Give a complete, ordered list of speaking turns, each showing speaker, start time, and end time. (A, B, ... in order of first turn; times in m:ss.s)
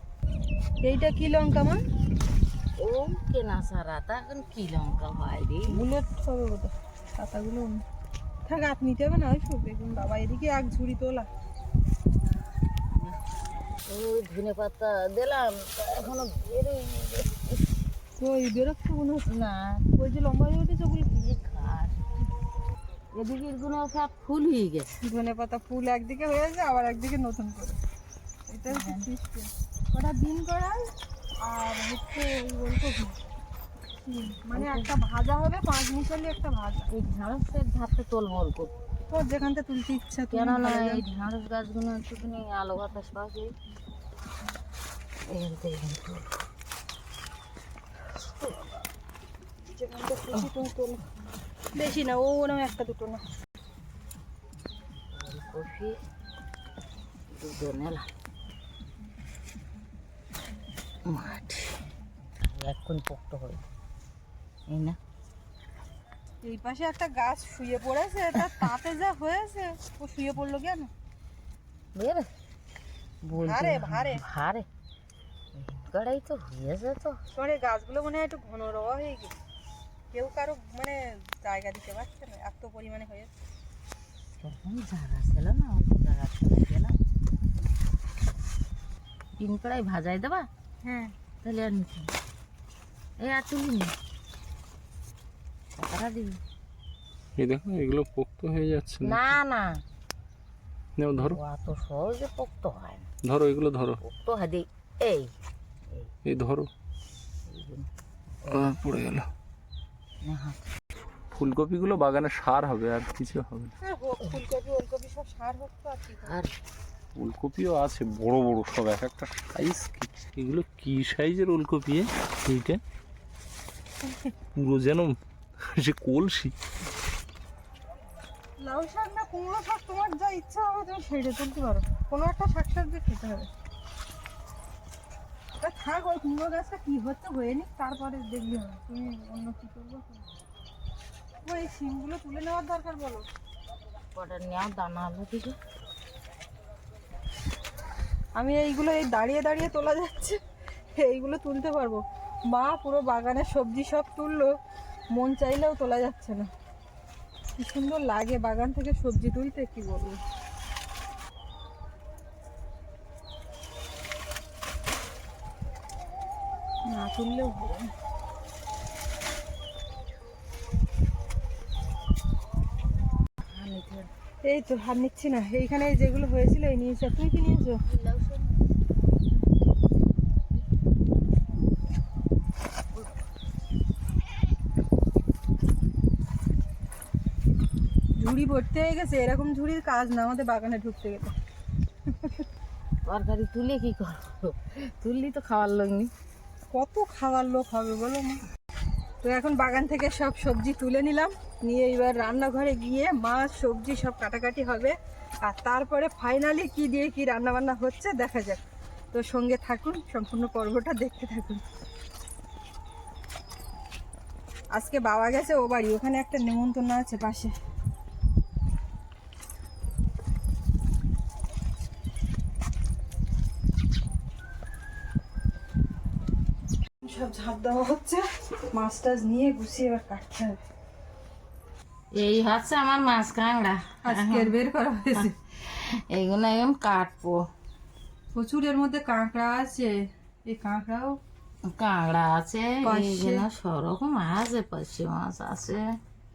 0:00.8-0:01.8 A
0:02.8-0:05.8 B
0:05.7-0:07.8 A
0:08.5-0:11.3 A
0:12.9-0:17.7 B
0:18.2-0:19.3 A
0:19.2-0:19.9 B
0:20.0-0:21.2 A
0:21.1-0:22.2 B
0:23.1-0:25.0 B
0:25.0-0:27.8 A
0:28.5-0:30.9 A
0:28.7-0:29.1 B
0:31.4-0:33.2 A
0:34.1-0:36.9 A
0:34.5-0:34.9 B
0:36.9-0:38.7 B
0:39.1-0:41.0 A
0:40.3-0:43.5 B
0:45.3-0:46.3 B
0:48.3-0:48.8 A
0:49.7-0:51.0 A
0:51.8-0:53.2 A
0:55.1-0:56.0 B
0:57.3-0:58.1 B
1:01.1-1:01.8 B
1:02.4-1:03.6 B
1:04.7-1:05.0 B
1:06.4-1:10.9 A
1:11.9-1:12.3 B
1:13.2-1:14.7 B
1:13.4-1:14.2 A
1:15.6-1:17.2 B
1:17.3-1:19.3 A
1:20.1-1:23.3 A
1:24.4-1:27.0 B
1:29.4-1:30.5 B
1:30.8-1:31.1 A
1:31.4-1:32.1 B
1:33.2-1:33.9 B
1:35.8-1:36.4 B
1:37.4-1:39.4 C
1:39.0-1:39.8 B
1:41.0-1:41.4 C
1:41.2-1:43.1 B
1:43.2-1:44.0 C
1:44.0-1:45.3 B
1:46.3-1:46.7 C
1:47.5-1:47.9 B
1:48.4-1:48.7 B
1:48.5-1:49.3 C
1:50.2-1:50.6 B
1:51.3-1:53.7 C
1:53.8-1:56.4 A
1:56.3-1:56.5 B
1:57.2-2:02.8 C
2:04.5-2:06.5 C
2:08.6-2:13.5 A
2:15.6-2:20.3 A
2:21.5-2:23.3 A
2:24.2-2:25.6 B
2:28.4-2:30.4 A
2:31.0-2:34.6 A
2:35.1-2:36.5 A
2:37.6-2:40.2 A
2:46.9-2:47.9 A
2:53.5-2:54.1 B
2:54.4-2:57.8 A
2:57.8-2:58.5 B
3:08.2-3:11.3 A
3:12.1-3:12.5 A
3:13.0-3:16.1 B
3:16.7-3:18.4 A
3:19.2-3:31.6 A
3:34.7-3:37.5 A
3:47.0-3:50.6 A
3:52.1-3:54.5 B
3:54.0-3:55.3 A
3:55.6-3:57.5 B
3:58.3-4:01.2 A
4:01.6-4:05.9 B
4:02.8-4:03.4 A